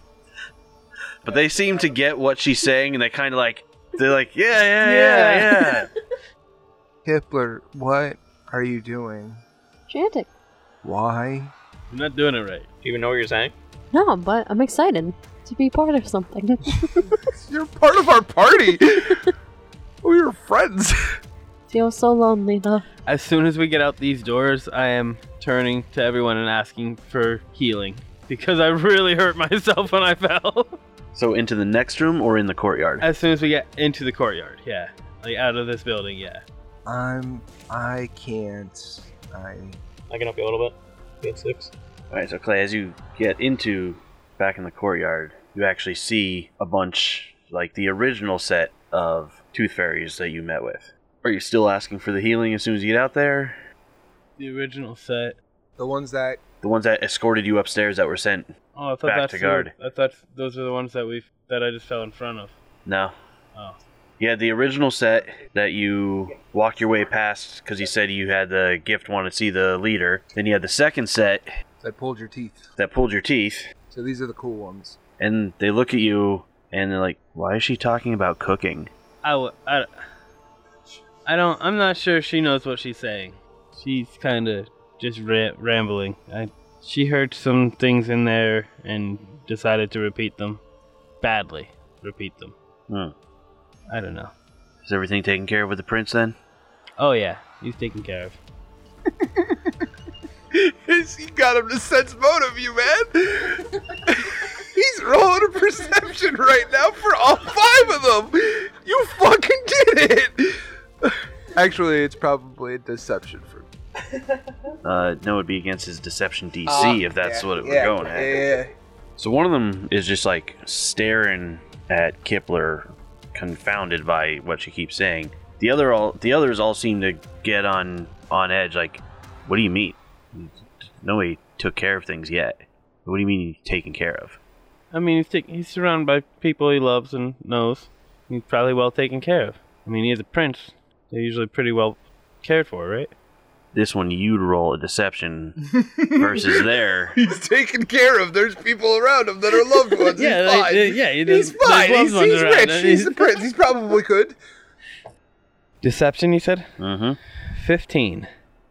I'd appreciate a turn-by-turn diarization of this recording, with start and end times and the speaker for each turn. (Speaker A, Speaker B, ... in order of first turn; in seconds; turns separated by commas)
Speaker A: 1.2-5.9, Speaker B: 4.9-5.4, Speaker C: 7.0-9.4, Speaker D: 9.9-10.3, Speaker C: 10.8-11.5, Speaker B: 11.9-12.7, Speaker E: 12.8-13.5, Speaker D: 13.9-17.2, Speaker C: 17.3-19.3, Speaker C: 20.0-21.2, Speaker D: 21.7-22.9, Speaker B: 23.1-30.8, Speaker A: 31.1-33.1, Speaker B: 33.0-36.4, Speaker C: 36.9-39.8, Speaker E: 40.1-41.7, Speaker A: 42.1-53.6, Speaker B: 54.4-55.4, Speaker C: 55.8-56.4, Speaker A: 56.6-58.5, Speaker B: 58.8-62.5, Speaker A: 59.0-59.7, Speaker A: 62.9-63.1, Speaker A: 64.2-71.5, Speaker C: 71.8-72.7, Speaker A: 72.8-73.6, Speaker C: 73.9-75.0, Speaker A: 75.2-78.9, Speaker B: 79.2-79.9, Speaker B: 81.2-90.6, Speaker B: 91.2-92.5, Speaker A: 92.9-93.1, Speaker B: 93.9-94.3, Speaker A: 94.8-96.4, Speaker B: 97.0-98.4, Speaker C: 99.1-99.8, Speaker C: 100.5-113.7, Speaker A: 114.8-118.4, Speaker C: 116.7-118.7, Speaker A: 119.2-134.4, Speaker B: 134.9-143.1, Speaker A: 143.7-147.2, Speaker C: 145.8-154.4, Speaker B: 150.2-153.3, Speaker B: 155.8-156.7, Speaker A: 156.8-157.2, Speaker B: 157.5-158.3